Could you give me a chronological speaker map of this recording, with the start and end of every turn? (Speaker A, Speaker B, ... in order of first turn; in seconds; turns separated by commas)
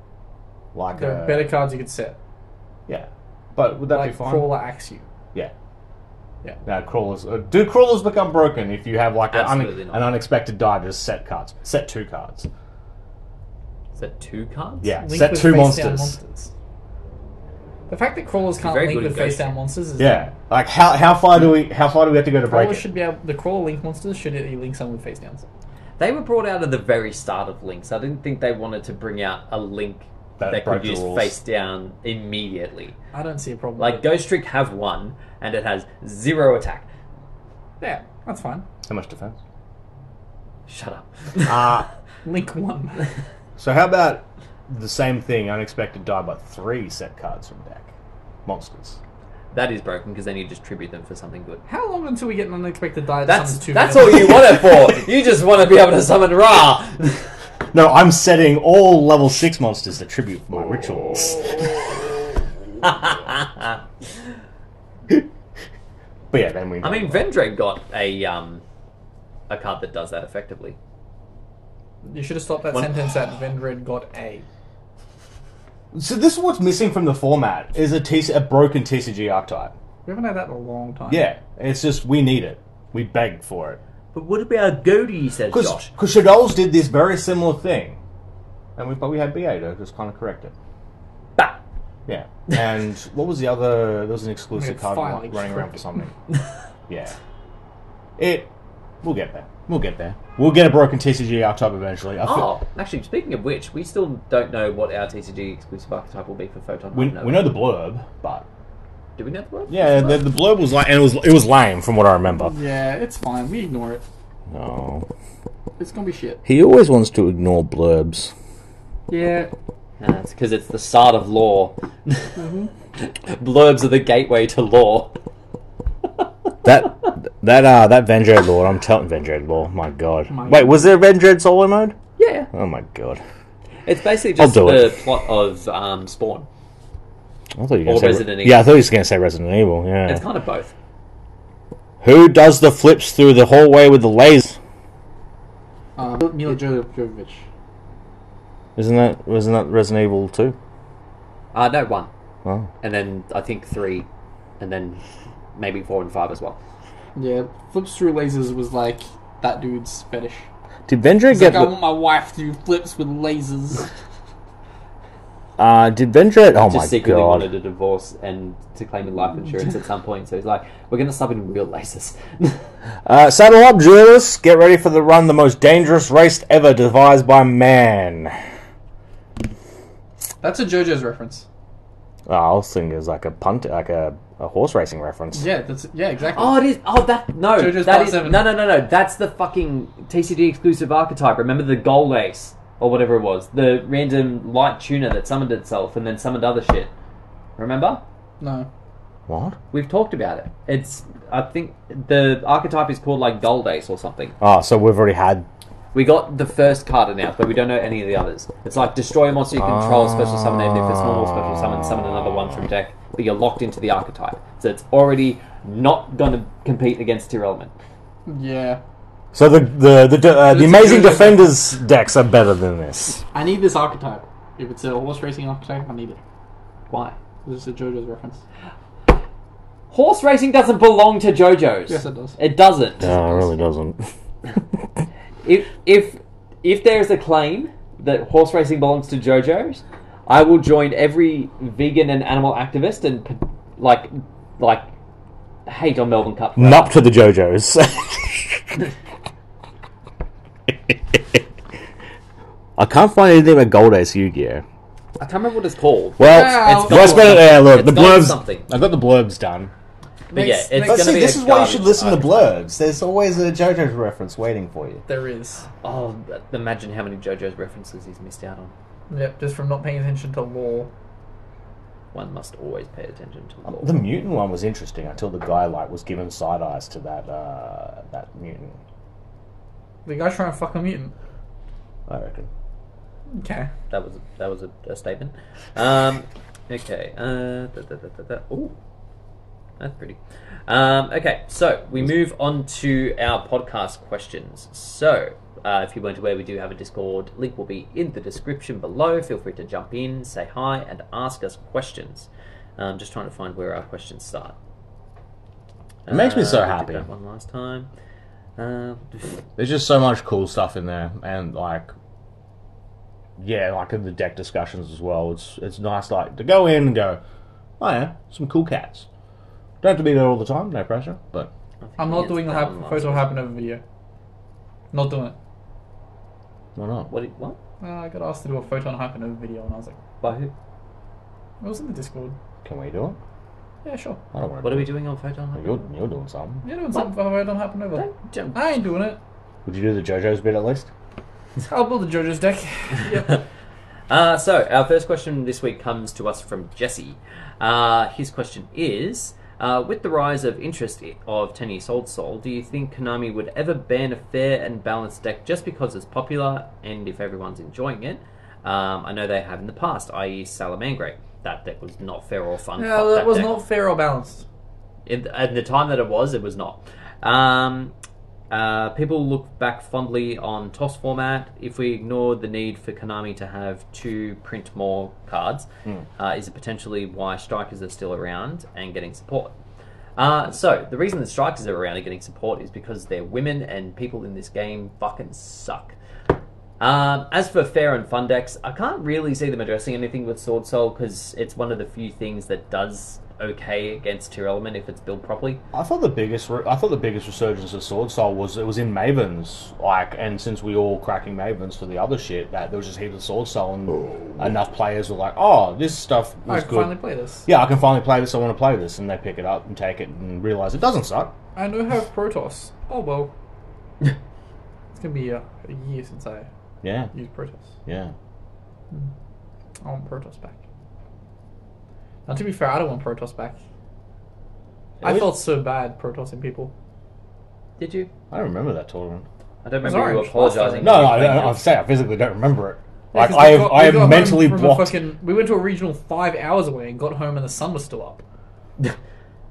Speaker A: 0.7-1.5, Speaker B: 0.9-2.2, Speaker A: 2.9-4.5, Speaker B: 3.9-5.1, Speaker A: 6.6-12.5, Speaker C: 9.3-10.1, Speaker C: 13.9-14.9, Speaker A: 14.8-16.1, Speaker B: 15.0-16.5, Speaker B: 17.9-20.3, Speaker C: 18.6-19.5, Speaker A: 20.0-22.9, Speaker B: 22.4-25.4, Speaker C: 26.0-33.0, Speaker A: 30.4-31.4, Speaker B: 33.1-34.0, Speaker C: 33.8-36.9, Speaker B: 37.8-38.6, Speaker A: 38.9-39.4, Speaker C: 40.7-41.8, Speaker A: 41.4-41.9, Speaker B: 42.2-43.1, Speaker A: 43.6-47.9, Speaker A: 48.5-49.0, Speaker C: 49.5-51.6, Speaker B: 51.7-54.5, Speaker C: 53.2-57.3, Speaker A: 57.7-61.7, Speaker C: 62.8-63.8, Speaker A: 66.3-67.2, Speaker C: 66.8-68.6, Speaker C: 69.5-70.8, Speaker B: 72.0-74.5, Speaker A: 75.9-79.7, Speaker B: 80.0-81.3, Speaker A: 81.1-83.8, Speaker C: 84.1-85.9, Speaker A: 85.5-88.0, Speaker A: 88.8-90.5, Speaker A: 92.1-96.1, Speaker B: 94.5-96.0, Speaker A: 96.9-97.1, Speaker A: 98.2-98.5, Speaker A: 99.0-102.5, Speaker C: 102.2-107.5, Speaker A: 106.9-108.5, Speaker C: 109.2-110.2, Speaker A: 109.7-112.5, Speaker B: 112.5-114.0, Speaker A: 114.5-115.0, Speaker B: 115.8-116.4, Speaker A: 116.4-118.3, Speaker B: 119.1-119.5, Speaker C: 120.0-122.4, Speaker B: 122.4-122.7, Speaker C: 123.0-125.2, Speaker A: 126.6-131.9, Speaker B: 130.3-130.9, Speaker C: 132.2-132.5, Speaker A: 132.5-133.2, Speaker C: 133.8-136.5, Speaker A: 134.4-135.0, Speaker A: 137.6-140.2, Speaker C: 137.8-138.7, Speaker C: 140.1-140.7, Speaker A: 142.0-144.6, Speaker B: 146.0-147.4, Speaker A: 148.8-150.6, Speaker C: 151.5-152.1, Speaker A: 152.4-152.7, Speaker C: 152.8-154.1, Speaker C: 154.6-155.0, Speaker C: 155.6-156.6, Speaker B: 157.1-160.5, Speaker A: 160.9-161.8, Speaker B: 161.3-163.9, Speaker A: 165.6-167.5, Speaker C: 166.7-172.6, Speaker A: 173.0-178.3, Speaker B: 180.4-181.4, Speaker A: 182.3-185.5, Speaker B: 185.3-186.6, Speaker C: 186.3-196.9, Speaker B: 187.5-188.5, Speaker C: 197.6-198.0, Speaker B: 198.4-198.7, Speaker A: 199.3-199.6, Speaker C: 199.7-204.3, Speaker A: 204.4-205.4, Speaker C: 205.9-217.7, Speaker A: 209.6-212.4, Speaker B: 218.2-218.8, Speaker A: 219.3-223.2, Speaker B: 220.4-221.5, Speaker B: 223.3-226.2, Speaker C: 226.9-227.2, Speaker B: 227.4-228.4, Speaker C: 229.9-233.5, Speaker B: 231.9-232.4, Speaker A: 233.0-234.1, Speaker C: 235.4-244.9, Speaker C: 245.7-247.0, Speaker A: 246.6-248.8, Speaker A: 250.9-251.4, Speaker A: 252.8-254.6, Speaker C: 255.2-258.7, Speaker A: 256.2-259.7, Speaker B: 256.2-257.4, Speaker B: 260.3-261.4, Speaker C: 260.3-262.5, Speaker A: 260.8-265.0, Speaker B: 265.1-265.6, Speaker C: 265.8-268.7, Speaker B: 269.1-270.9, Speaker C: 272.1-274.0, Speaker A: 273.7-278.8, Speaker B: 280.1-281.1, Speaker A: 282.1-282.5, Speaker B: 283.3-283.7, Speaker C: 283.9-288.7, Speaker C: 289.8-304.6, Speaker C: 306.1-307.9, Speaker A: 306.1-307.1, Speaker C: 308.6-309.4, Speaker A: 309.6-311.9, Speaker A: 313.4-317.2, Speaker A: 317.8-319.1, Speaker A: 319.8-321.5, Speaker C: 321.8-323.4, Speaker B: 322.0-323.8, Speaker B: 324.9-325.3, Speaker A: 326.8-327.1, Speaker C: 327.1-327.6, Speaker B: 327.8-330.0, Speaker C: 330.2-330.5, Speaker B: 331.6-332.4, Speaker A: 332.6-333.2, Speaker B: 333.8-334.2, Speaker A: 334.3-334.9, Speaker C: 334.6-335.9, Speaker A: 335.6-336.6, Speaker B: 336.6-339.2, Speaker C: 337.9-338.6, Speaker A: 339.6-340.9, Speaker B: 341.6-343.4, Speaker C: 344.1-363.5, Speaker B: 362.8-364.4, Speaker C: 365.1-367.9, Speaker C: 368.5-375.7, Speaker C: 376.2-379.5, Speaker C: 380.2-385.9, Speaker C: 386.8-395.6, Speaker A: 395.7-406.9, Speaker B: 406.5-407.5, Speaker A: 407.4-411.3, Speaker B: 411.6-413.3, Speaker B: 414.9-416.5, Speaker A: 416.8-417.1, Speaker B: 417.1-417.7, Speaker A: 417.9-418.1, Speaker B: 419.8-420.6, Speaker B: 422.2-423.6, Speaker B: 425.0-426.7, Speaker A: 425.0-425.4, Speaker C: 427.8-428.1, Speaker A: 428.3-429.2, Speaker C: 429.6-431.6, Speaker B: 429.8-431.0, Speaker A: 430.8-435.0, Speaker B: 433.1-438.2